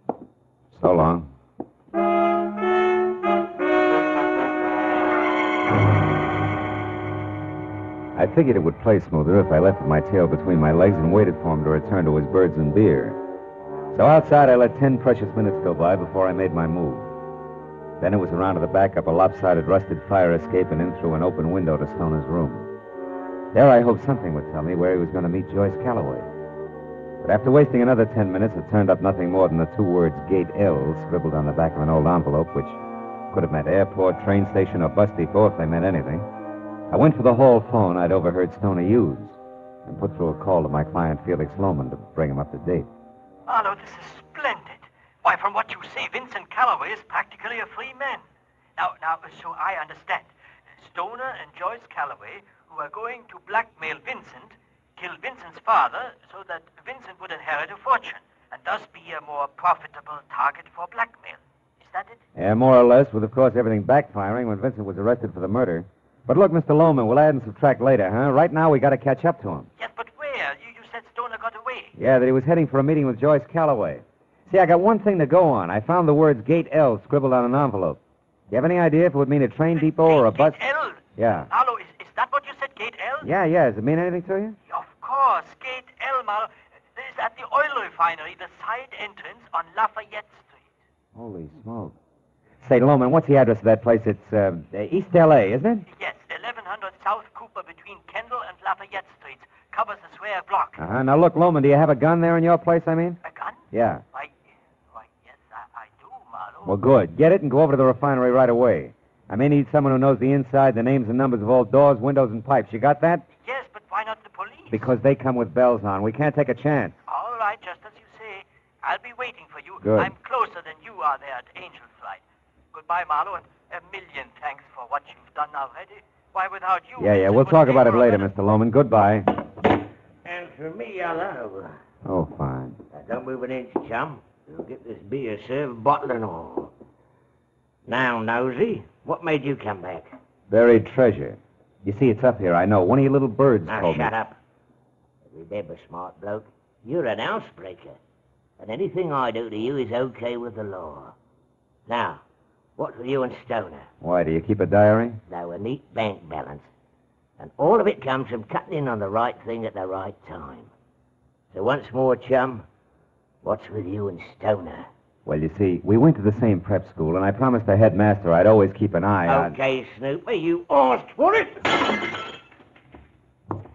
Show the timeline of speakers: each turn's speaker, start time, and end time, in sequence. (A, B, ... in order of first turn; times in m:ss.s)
0:00.7-0:01.3 A
0:08.1-0:13.2 A
0:13.9-0:17.1 A
0:18.0-0:22.7 A
0:23.5-0:26.3 A
0:27.2-0:32.8 A
0:33.3-0:36.3 A
0:36.9-0:42.9 A
0:43.5-0:44.7 B
0:45.3-0:48.2 B
0:48.8-0:50.2 B
0:50.9-0:54.4 B
0:55.0-1:01.4 B
1:02.4-1:09.7 A
1:09.8-1:11.9 B
1:11.9-1:18.0 A
1:18.5-1:21.5 A
1:20.1-1:21.0 B
1:21.5-1:23.2 B
1:23.2-1:24.6 A
1:24.7-1:30.5 B
1:31.1-1:32.0 A
1:32.6-1:35.8 A
1:36.0-1:40.7 B
1:40.8-1:43.2 A
1:43.3-1:43.6 B
1:43.7-1:44.0 A
1:45.8-1:46.6 B
1:46.6-1:53.2 A
1:53.4-1:54.7 B
1:54.7-1:56.9 A
1:57.1-2:02.2 B
1:59.8-2:00.1 A
2:02.7-2:08.2 B
2:07.0-2:09.4 A
2:10.2-2:11.7 C
2:12.0-2:12.8 A
2:12.9-2:16.7 C
2:17.9-2:20.1 C
2:20.5-2:24.1 A
2:23.7-2:24.4 C
2:25.3-2:28.0 C
2:28.6-2:31.1 C
2:31.9-2:32.2 C
2:32.8-2:33.9 C
2:34.0-2:35.2 A
2:35.3-2:36.7 C
2:37.4-2:40.7 C
2:41.5-2:42.6 C
2:43.4-2:44.9 C
2:45.2-2:49.5 A
2:49.3-2:51.8 C